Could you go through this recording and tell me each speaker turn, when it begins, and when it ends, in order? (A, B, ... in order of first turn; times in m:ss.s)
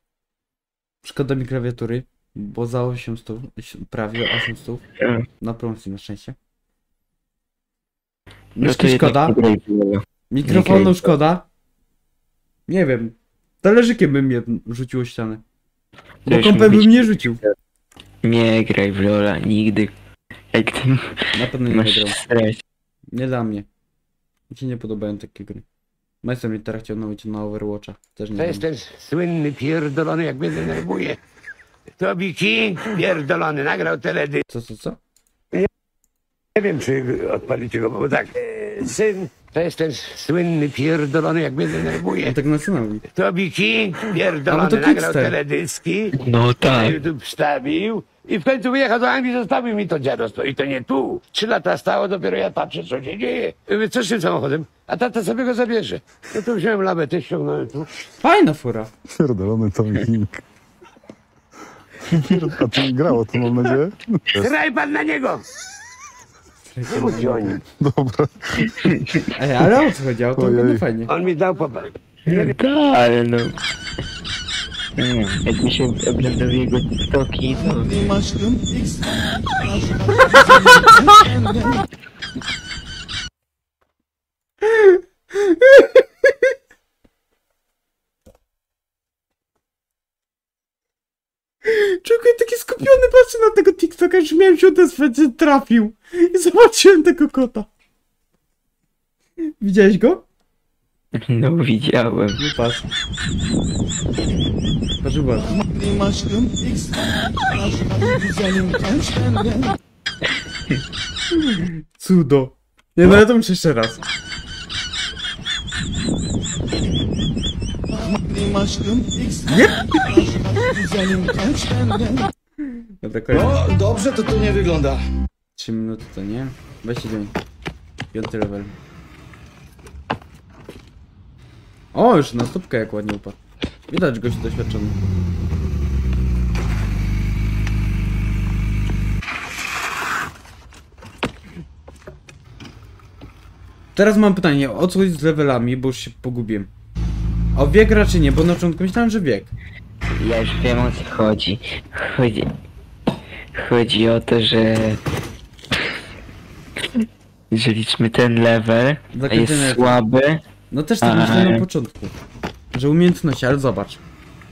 0:01.0-0:04.8 A
0:05.4-0:06.4 A
0:08.6-0:09.4 A
0:08.6-0:11.1 B
0:10.3-0:11.4 A
0:12.7-0:15.4 A
0:16.2-0:17.4 A
0:16.2-0:17.5 B
0:18.2-0:19.9 B
0:20.5-0:22.6 B
0:21.3-0:22.2 A
0:23.1-0:23.6 A
0:24.5-0:25.6 A
0:26.2-0:28.6 A
0:28.4-0:31.2 C
0:32.0-0:34.4 C
0:34.5-0:35.0 A
0:36.6-0:42.3 C
0:42.2-0:43.0 A
0:43.2-0:46.1 C
0:44.5-0:45.4 A
0:46.2-0:47.0 B
0:46.7-0:57.9 C
0:58.2-0:58.9 A
0:59.2-1:00.4 D
1:02.1-1:04.5 D
1:04.4-1:05.4 C
1:06.7-1:07.6 A
1:06.9-1:07.6 C
1:07.8-1:08.2 D
1:08.8-1:09.2 B
1:09.3-1:11.1 A
1:10.4-1:10.8 D
1:11.0-1:12.5 C
1:12.2-1:13.5 B
1:15.0-1:17.9 B
1:24.6-1:26.0 A
1:31.6-1:37.7 A
1:39.6-1:40.2 A
1:41.2-1:42.4 B
1:42.4-1:42.8 A
1:45.0-1:45.5 A
1:51.5-1:54.0 A
1:59.5-1:59.8 A
2:01.1-2:01.8 E
2:03.0-2:03.6 A
2:03.3-2:05.0 E
2:05.6-2:07.3 A
2:08.1-2:08.7 A
2:11.9-2:15.0 A
2:23.9-2:26.7 A
2:27.5-2:29.5 A
2:30.1-2:32.5 B
2:33.5-2:35.0 B
2:37.5-2:40.4 B
2:39.1-2:40.0 A
2:40.7-2:42.1 A
2:41.0-2:41.6 B
2:42.7-2:44.0 A